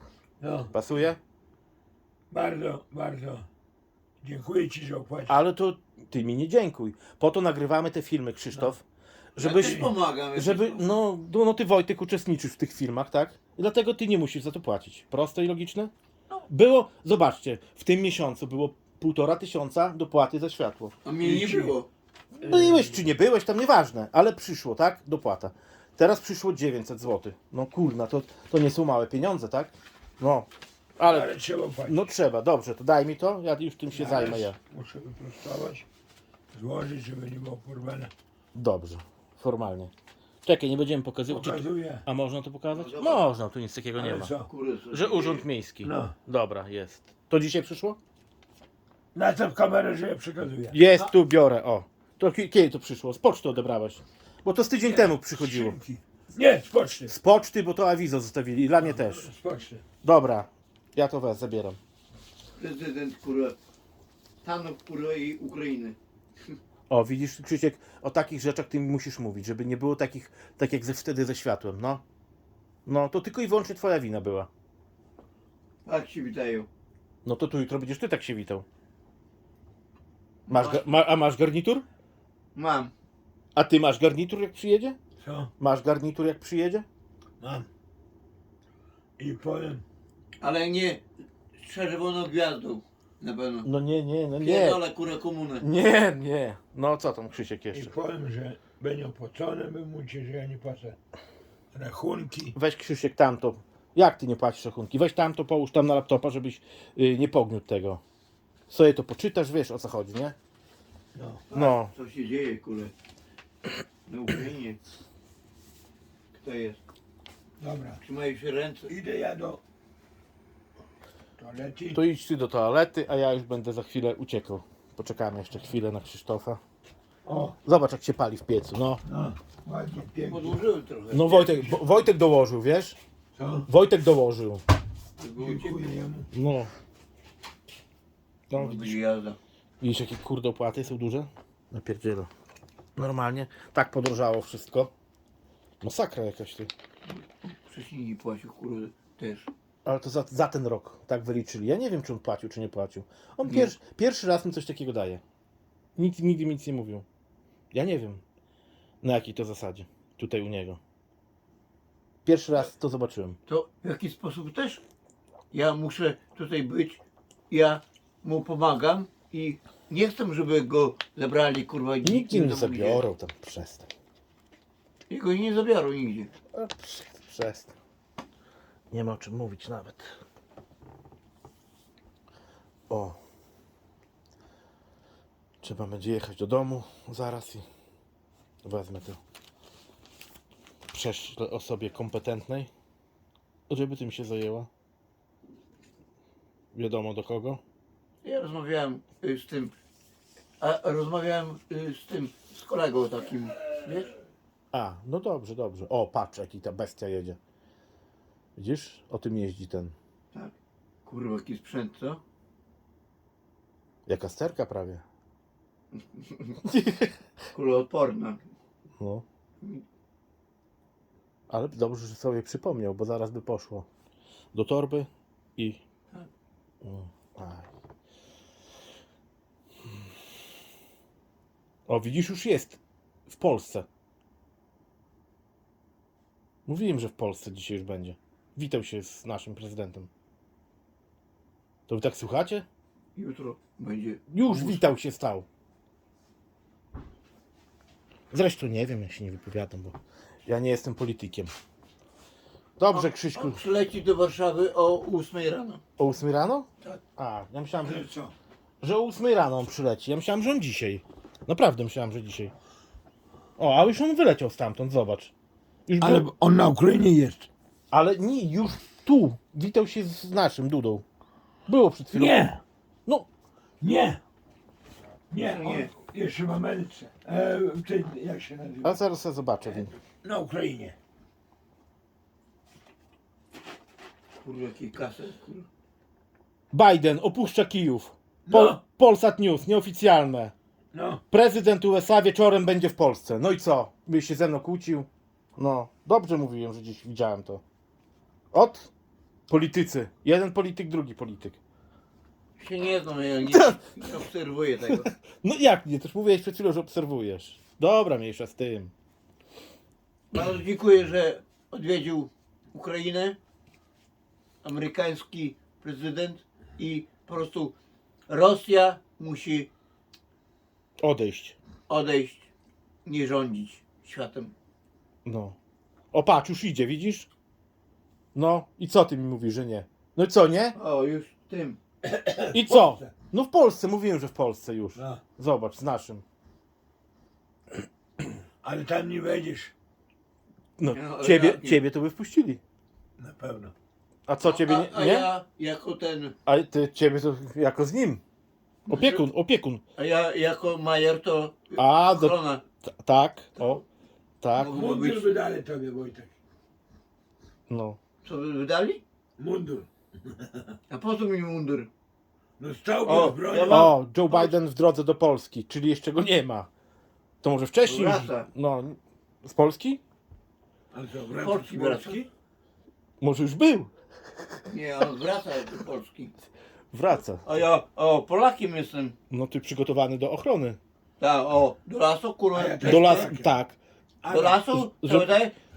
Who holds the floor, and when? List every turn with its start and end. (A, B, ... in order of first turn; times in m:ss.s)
0:00.4-0:00.8 A
0:00.7-0:01.2 B
0:02.3-0:03.4 A
0:04.2-0:05.4 A
0:05.3-0:08.8 B
0:09.4-0:09.8 B
0:09.4-0:10.9 C
0:09.5-0:09.9 A
0:10.3-0:15.9 B
0:16.5-0:21.0 B
0:21.0-0:21.9 C
0:21.2-0:21.8 A
0:22.4-0:31.3 B
0:22.4-0:23.0 A
0:31.0-0:32.1 A
0:31.9-0:34.6 B
0:33.9-0:35.8 A
0:36.5-0:38.1 A
0:38.5-0:39.9 B
0:40.4-0:44.3 B
0:41.3-0:42.0 A
0:42.7-0:43.3 C
0:44.0-0:44.5 A
0:44.4-0:45.4 C
0:44.9-0:48.0 B
0:45.8-0:46.1 A
0:49.1-0:50.8 A
0:50.7-0:55.8 B
0:54.9-0:57.1 A
0:57.1-0:59.3 B
0:58.8-0:59.8 A
1:00.0-1:01.8 B
1:02.6-1:03.6 C
1:04.4-1:06.0 C
1:06.9-1:12.0 B
1:12.8-1:14.5 B
1:15.8-1:16.7 C
1:17.2-1:18.6 B
1:20.5-1:20.9 C
1:20.5-1:21.8 B
1:22.5-1:22.9 C
1:23.5-1:25.0 B
1:25.2-1:25.5 A
1:25.6-1:26.8 B
1:27.4-1:27.7 A
1:29.2-1:29.8 A
1:30.4-1:31.0 C
1:31.6-1:33.7 C
1:33.6-1:34.8 B
1:34.4-1:35.6 C
1:35.6-1:37.9 B
1:37.7-1:41.0 A
1:41.7-1:42.6 A
1:42.5-1:48.0 B
1:48.7-1:50.3 B
1:51.1-1:51.5 A
1:51.5-1:51.9 B
1:51.5-1:52.9 C
1:54.1-1:54.8 C
1:56.3-1:56.8 C
1:57.6-1:58.0 A
1:58.0-1:58.9 C
1:58.9-1:59.6 A
2:01.4-2:02.0 A
2:01.9-2:06.6 B
2:07.2-2:07.6 A
2:07.6-2:09.0 B
2:09.0-2:10.6 A
2:10.2-2:11.5 C
2:11.1-2:13.0 B
2:11.3-2:11.8 A
2:13.4-2:13.7 A
2:13.7-2:14.6 B
2:15.2-2:15.9 C
2:15.4-2:16.3 A
2:16.3-2:16.7 B
2:18.5-2:19.0 B
2:18.5-2:19.4 C
2:19.8-2:22.3 B
2:23.0-2:24.9 B
2:25.8-2:26.7 B
2:27.1-2:29.5 C
2:29.8-2:35.2 B
2:33.4-2:33.7 C
2:36.0-2:37.0 B
2:37.7-2:38.2 B
2:39.0-2:40.8 B
2:42.2-2:43.4 B
2:43.5-2:44.8 C
2:45.5-2:53.0 C
2:52.0-2:53.9 B
2:55.1-2:56.3 C
2:56.5-2:57.7 B
2:58.9-3:00.1 B
3:02.9-3:03.2 B
3:05.6-3:07.6 B
3:08.6-3:09.2 B
3:10.9-3:12.7 B
3:13.7-3:14.7 B
3:16.7-3:17.6 B
3:18.2-3:19.7 C
3:20.6-3:24.1 C
3:24.7-3:27.4 B
3:28.6-3:29.9 B
3:31.0-3:32.2 C
3:34.1-3:35.0 B
3:36.1-3:36.5 C
3:36.6-3:37.1 B
3:37.5-3:38.4 C
3:41.5-3:43.9 B
3:44.5-3:45.8 B
3:46.8-3:47.7 B
3:51.9-3:53.9 B
3:56.7-4:00.1 B
4:01.9-4:02.6 B
4:03.1-4:04.9 C
4:04.3-4:05.4 B
4:08.3-4:10.0 B
4:10.5-4:11.5 B
4:12.8-4:13.6 B
4:12.9-4:15.8 C
4:16.0-4:18.1 B
4:17.8-4:18.3 A
4:18.8-4:22.5 B
4:23.6-4:25.3 B
4:25.9-4:26.3 B
4:26.0-4:27.5 A
4:27.9-4:31.0 B
4:31.7-4:32.4 B
4:32.1-4:32.6 A
4:33.8-4:34.2 A
4:35.3-4:39.0 A
4:35.4-4:35.9 C
4:38.8-4:39.9 B
4:40.2-4:41.0 A
4:44.4-4:45.7 C
4:46.7-4:50.5 B
4:48.4-4:48.8 A
4:50.9-4:51.2 A
4:51.3-4:57.6 B
4:58.5-4:58.9 B
4:59.5-5:01.6 B
5:02.6-5:05.1 C
5:03.5-5:03.8 B
5:04.9-5:08.9 B
5:10.3-5:13.4 C
5:14.6-5:17.8 C
5:18.3-5:19.7 C
5:21.0-5:21.6 B
5:21.9-5:22.5 C
5:23.0-5:24.5 C
5:25.2-5:25.6 B
5:26.1-5:27.3 B
5:28.3-5:30.8 B
5:30.7-5:31.8 C
5:32.0-5:33.1 A
5:32.5-5:36.2 B
5:35.0-5:35.2 A
5:38.6-5:39.7 A
5:40.8-5:42.6 B
5:40.9-5:41.8 C
5:43.2-5:43.7 A
5:44.3-5:45.3 B
5:44.4-5:46.3 C
5:46.5-5:48.2 B
5:48.8-5:49.2 C
5:48.9-5:49.8 B
5:50.0-5:52.6 C
5:51.8-5:52.4 B
5:53.0-5:53.8 B
5:53.6-5:53.8 C
5:54.4-5:54.7 B
5:54.5-5:55.4 C
5:54.7-5:56.3 A
5:57.7-5:58.0 B
5:58.2-5:59.0 C
5:59.4-6:00.7 A
6:00.9-6:01.9 C
6:02.6-6:03.9 A
6:03.1-6:06.7 B
6:03.5-6:04.6 C
6:07.4-6:10.0 B
6:07.8-6:08.4 C
6:10.9-6:12.3 A
6:11.4-6:12.2 C
6:13.2-6:13.9 B
6:14.7-6:16.3 C
6:16.9-6:17.4 B
6:17.2-6:19.1 C
6:19.3-6:20.8 B
6:21.2-6:23.3 C
6:22.5-6:23.5 A
6:22.8-6:23.8 B
6:24.2-6:24.6 A
6:24.3-6:25.5 C
6:24.7-6:25.3 B